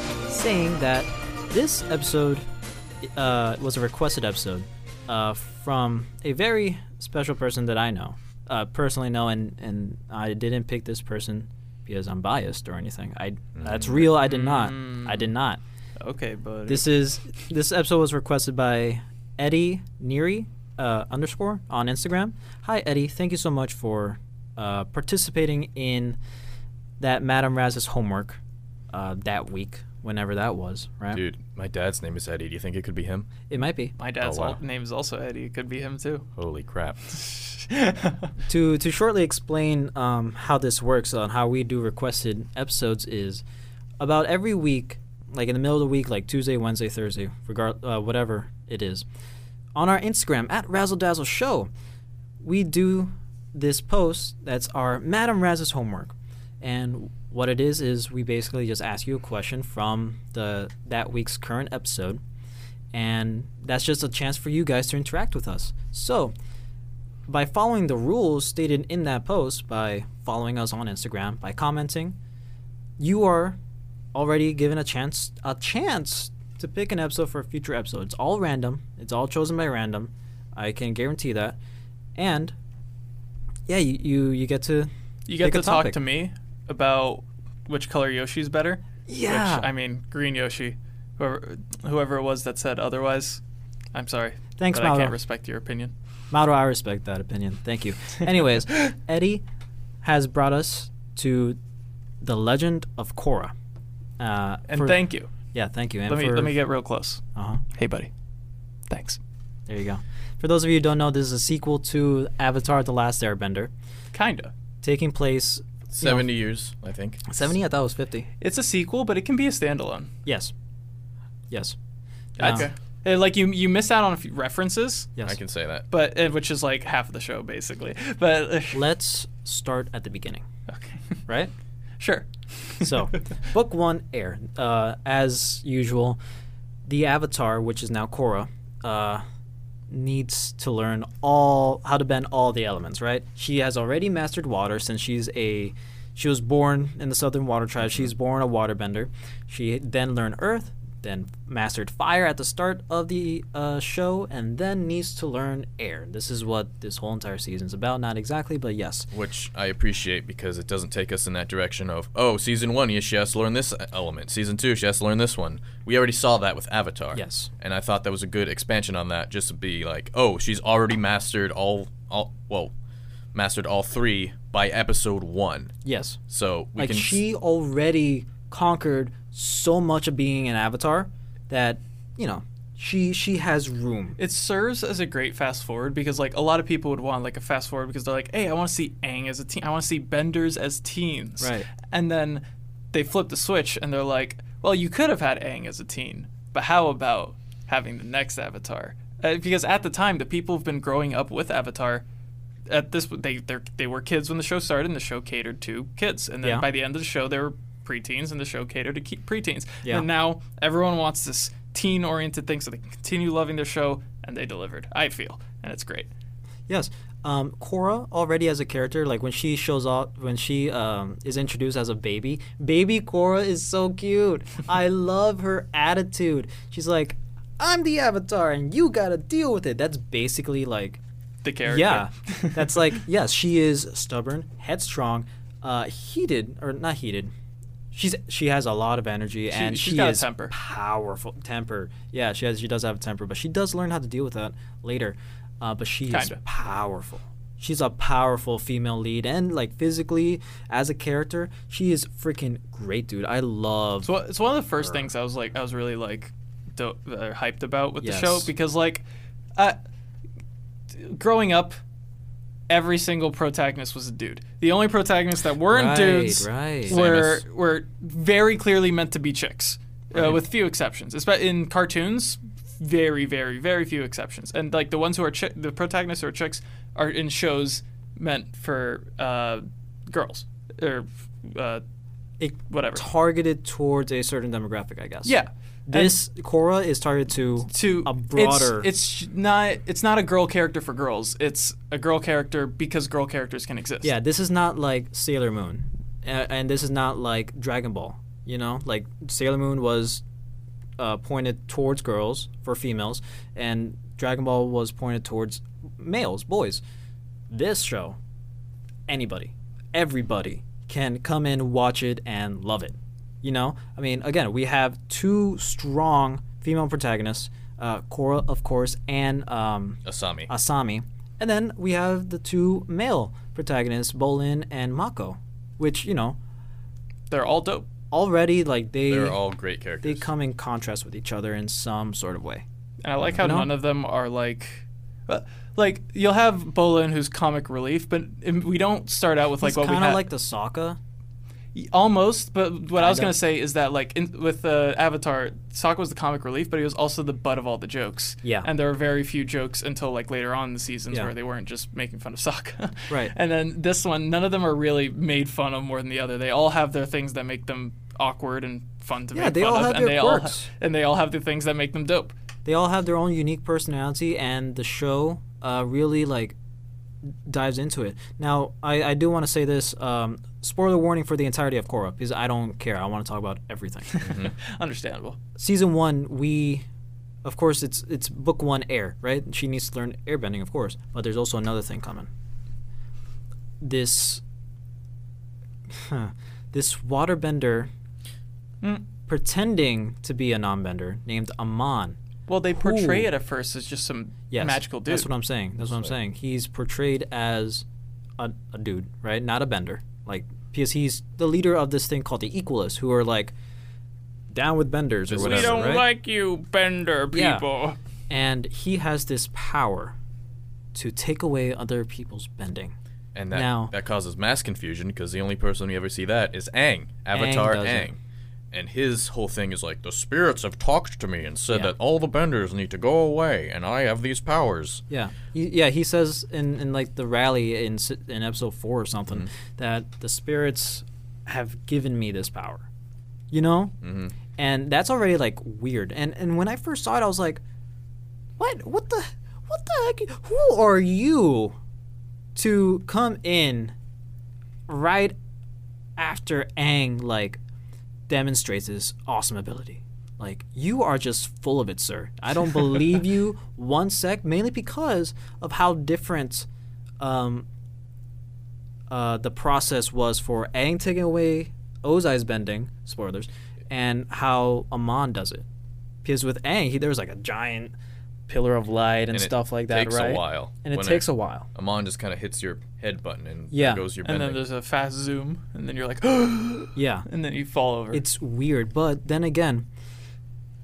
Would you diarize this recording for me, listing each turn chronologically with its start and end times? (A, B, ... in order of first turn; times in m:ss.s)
0:00.3-0:02.4 A
0:03.0-0:15.6 A
0:13.6-0:14.1 B
0:14.2-0:15.3 C
0:16.0-0:16.9 C
0:16.7-0:26.2 A
0:27.0-0:31.2 A
0:31.1-0:33.3 B
0:33.5-0:34.0 A
0:34.0-0:36.3 C
0:34.2-0:34.6 B
0:36.4-0:37.2 B
0:37.3-0:38.3 C
0:38.5-0:43.4 A
0:44.0-0:49.1 A
0:49.8-0:51.7 A
0:52.4-1:02.2 A
1:02.9-1:06.3 A
1:07.3-1:12.2 A
1:13.0-1:13.6 A
1:14.1-1:21.6 A
1:22.2-1:22.6 A
1:23.7-1:24.9 A
1:25.3-1:33.4 C
1:25.4-1:26.0 A
1:29.1-1:29.7 A
1:33.9-1:35.9 C
1:34.6-1:35.2 A
1:36.3-1:39.4 A
1:40.0-1:41.6 A
1:42.2-1:43.5 A
1:44.2-1:46.6 A
1:44.7-1:45.3 C
1:46.1-1:47.2 C
1:47.4-1:47.6 A
1:47.7-1:48.1 C
1:48.9-1:49.2 C
1:49.7-1:53.7 A
1:54.1-1:54.5 C
1:54.8-1:56.2 A
1:55.9-1:57.4 B
1:57.3-1:58.3 A
1:58.4-2:00.1 C
2:00.3-2:00.5 A
2:01.5-2:01.8 A
2:02.4-2:05.1 C
2:02.4-2:02.7 A
2:05.2-2:05.8 B
2:05.9-2:08.8 C
2:08.7-2:10.4 A
2:10.7-2:11.2 C
2:12.0-2:12.9 C
2:12.8-2:16.2 A
2:16.8-2:19.2 A
2:19.9-2:39.1 A
2:39.1-2:52.7 B
2:47.1-2:47.5 A
2:53.3-2:55.7 B
2:55.8-2:56.2 A
2:56.3-2:57.2 B
2:56.8-3:04.2 A
3:04.2-3:22.0 C
3:11.4-3:11.7 A
3:22.7-3:36.1 C
3:36.7-3:51.0 A
3:51.4-3:52.9 C
3:51.6-3:57.3 A
3:57.9-4:14.1 A
3:59.5-4:00.5 C
4:06.1-4:06.4 C
4:14.0-4:19.0 C
4:18.0-4:18.5 A
4:20.9-4:21.8 C
4:22.7-4:41.8 C
4:25.7-4:27.4 A
4:42.4-4:45.3 A
4:42.7-4:43.0 C
4:45.2-4:46.2 C
4:45.9-4:48.9 A
4:47.7-4:54.1 C
4:54.0-5:00.2 A
5:01.0-5:06.8 A
5:07.5-5:08.2 A
5:09.1-5:26.4 A
5:20.1-5:20.5 B
5:27.3-5:27.9 C
5:28.1-5:29.4 A
5:29.1-5:30.3 B
5:30.0-5:32.6 A
5:33.0-5:40.2 C
5:33.4-5:33.7 A
5:39.6-5:41.0 A
5:41.7-6:02.3 C
5:43.0-5:43.4 A
5:48.4-5:48.7 A
5:59.3-6:00.7 A
6:02.6-6:06.6 A
6:07.2-6:14.2 A
6:14.1-6:15.4 C
6:14.2-6:14.5 B
6:15.6-6:16.9 A
6:17.4-6:22.3 A
6:23.8-6:24.4 A
6:25.9-6:27.9 A
6:29.3-6:32.2 A
6:32.5-6:35.3 C
6:32.7-6:33.3 A
6:34.5-6:37.8 A
6:38.4-6:43.5 A
6:44.5-6:46.0 A
6:45.3-6:46.0 B
6:45.4-6:48.0 C
6:47.3-6:47.7 A
6:48.3-6:50.2 A
6:50.9-6:53.0 A
6:53.4-6:58.2 B
6:53.5-6:53.9 A
6:57.3-6:58.1 A
6:58.7-7:05.0 B
7:05.1-7:12.9 A
7:13.5-7:14.0 A
7:14.0-7:14.3 B
7:14.6-7:17.6 A
7:18.6-7:21.8 A
7:22.6-7:23.9 A
7:24.9-7:25.4 A
7:26.2-7:27.6 A
7:28.3-7:36.7 A
7:37.2-7:37.7 A
7:39.1-7:45.7 A
7:46.2-7:47.9 A
7:48.5-7:51.7 A
7:49.3-7:54.6 B
7:53.7-7:54.0 A
7:54.2-7:58.2 C
7:57.0-7:57.3 A
7:58.1-7:59.9 A